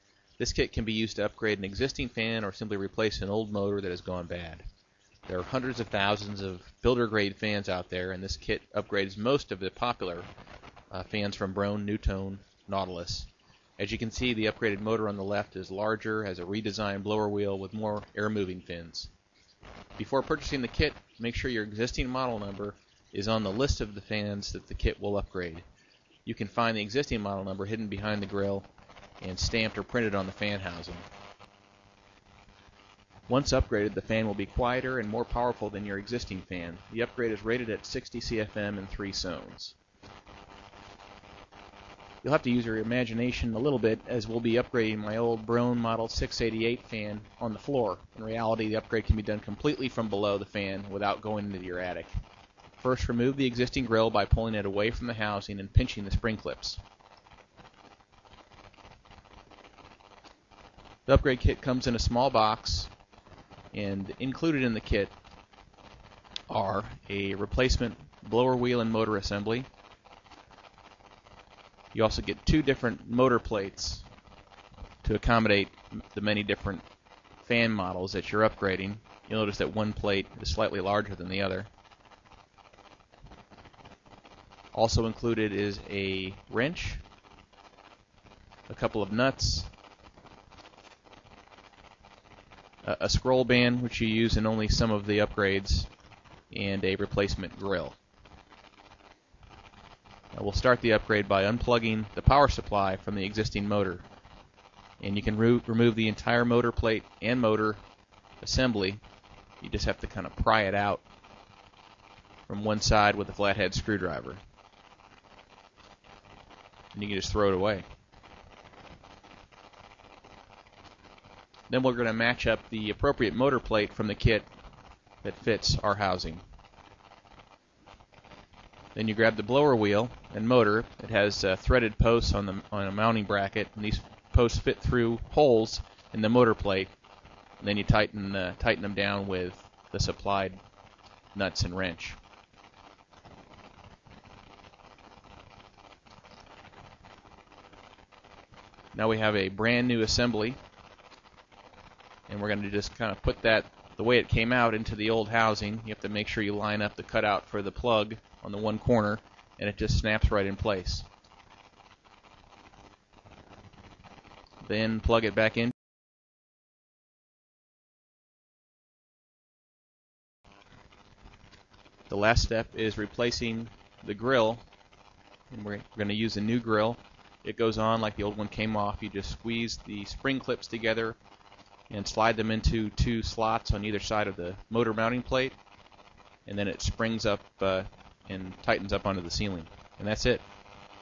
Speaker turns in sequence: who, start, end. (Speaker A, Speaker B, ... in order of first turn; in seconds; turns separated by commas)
Speaker A: 0.4-4.7, Speaker A: 5.3-10.3, Speaker A: 10.9-19.1, Speaker A: 20.0-25.6, Speaker A: 26.3-28.7, Speaker A: 29.2-31.1, Speaker A: 33.3-39.8, Speaker A: 42.2-52.2, Speaker A: 52.8-56.8, Speaker A: 61.1-62.9, Speaker A: 63.7-65.1, Speaker A: 66.5-69.7, Speaker A: 71.9-74.1, Speaker A: 75.0-76.8, Speaker A: 77.4-81.7, Speaker A: 84.7-87.0, Speaker A: 88.7-89.7, Speaker A: 92.8-95.9, Speaker A: 96.5-98.0, Speaker A: 100.3-104.0, Speaker A: 105.0-107.8, Speaker A: 108.4-109.0, Speaker A: 109.6-111.0, Speaker A: 112.5-114.4, Speaker A: 116.9-117.8, Speaker A: 121.7-124.5, Speaker A: 125.2-126.4, Speaker A: 128.9-136.9, Speaker A: 137.6-140.6, Speaker A: 141.3-142.2, Speaker A: 148.9-150.6, Speaker A: 152.3-161.1, Speaker A: 164.6-165.7, Speaker A: 172.1-174.6, Speaker A: 175.5-181.2, Speaker A: 181.9-185.6, Speaker A: 186.5-190.4